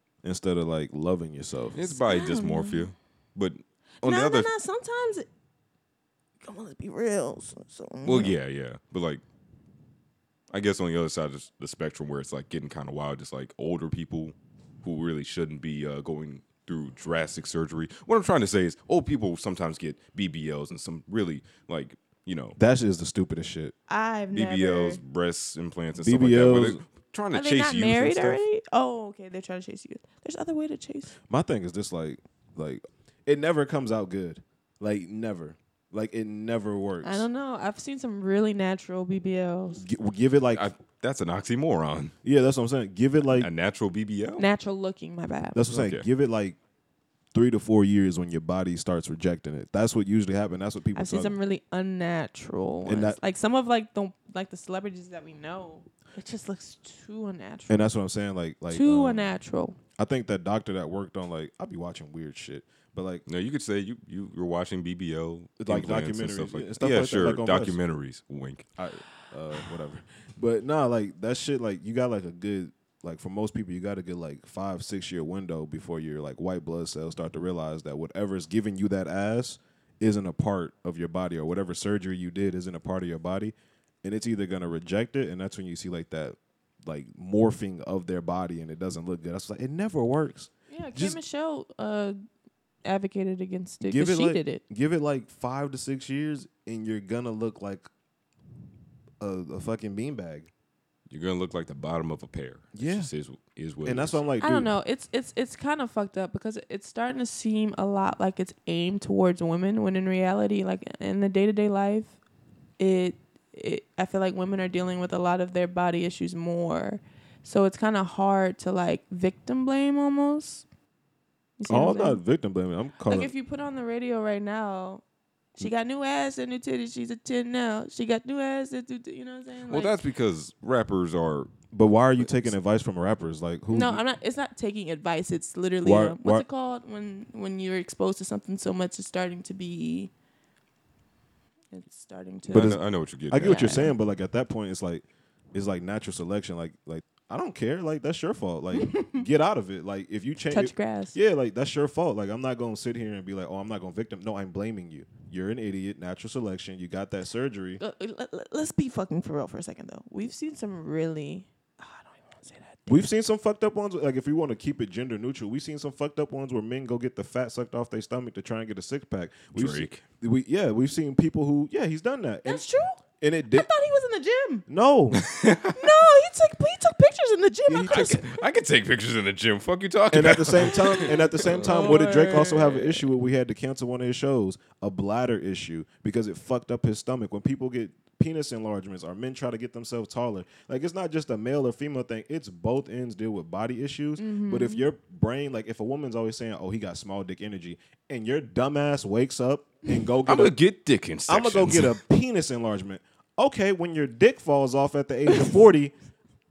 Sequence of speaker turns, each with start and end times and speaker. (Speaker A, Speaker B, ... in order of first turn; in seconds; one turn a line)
Speaker A: 0.2-1.8
Speaker B: 1.8-4.5
Speaker C: 1.9-2.9
Speaker C: 4.0-5.3
Speaker C: 6.4-8.4
Speaker B: 8.1-9.2
Speaker B: 10.5-22.6
Speaker A: 22.6-23.7
Speaker C: 23.9-25.0
Speaker B: 24.3-28.4
Speaker A: 26.0-26.8
Speaker C: 27.3-31.1
Speaker A: 31.3-37.3
Speaker C: 37.0-39.8
Speaker A: 39.8-40.7
Speaker B: 40.5-42.1
Speaker A: 42.2-43.5
Speaker B: 43.3-44.5
Speaker C: 44.4-45.6
Speaker A: 45.5-46.6
Speaker B: 45.7-46.1
Speaker A: 47.3-51.4
Speaker C: 50.9-57.9
Speaker A: 52.9-53.2
Speaker A: 57.7-59.3
Speaker C: 58.7-59.8
Speaker A: 60.0-63.2
Speaker B: 63.3-68.7
Speaker A: 65.6-67.8
Speaker A: 68.8-91.2
Speaker C: 90.7-92.2
Speaker C: 92.8-94.6
Speaker A: 93.8-97.9
Speaker A: 99.2-100.5
Speaker B: 101.1-104.2
Speaker A: 102.7-103.1
Speaker A: 103.8-104.7
Speaker C: 104.4-112.2
Speaker C: 112.8-120.7
Speaker C: 121.6-122.2
Speaker A: 121.7-123.3
Speaker C: 123.1-125.0
Speaker C: 125.6-130.0
Speaker B: 129.7-131.6
Speaker A: 131.7-134.0
Speaker B: 132.2-132.5
Speaker C: 133.7-140.1
Speaker A: 135.8-136.4
Speaker C: 141.7-142.8
Speaker B: 142.5-143.8
Speaker A: 142.5-157.8
Speaker C: 143.4-143.9
Speaker C: 148.7-149.2
Speaker C: 150.5-151.2
Speaker C: 157.8-163.1
Speaker A: 162.9-172.7
Speaker B: 169.5-170.0
Speaker C: 172.5-174.7
Speaker A: 173.2-173.7
Speaker A: 174.7-175.2
Speaker B: 175.1-175.8
Speaker C: 175.8-178.3
Speaker A: 177.7-178.3
Speaker B: 177.9-182.7
Speaker A: 180.1-200.6
Speaker C: 180.6-182.9
Speaker C: 194.2-194.8
Speaker B: 200.3-202.0
Speaker A: 201.3-205.9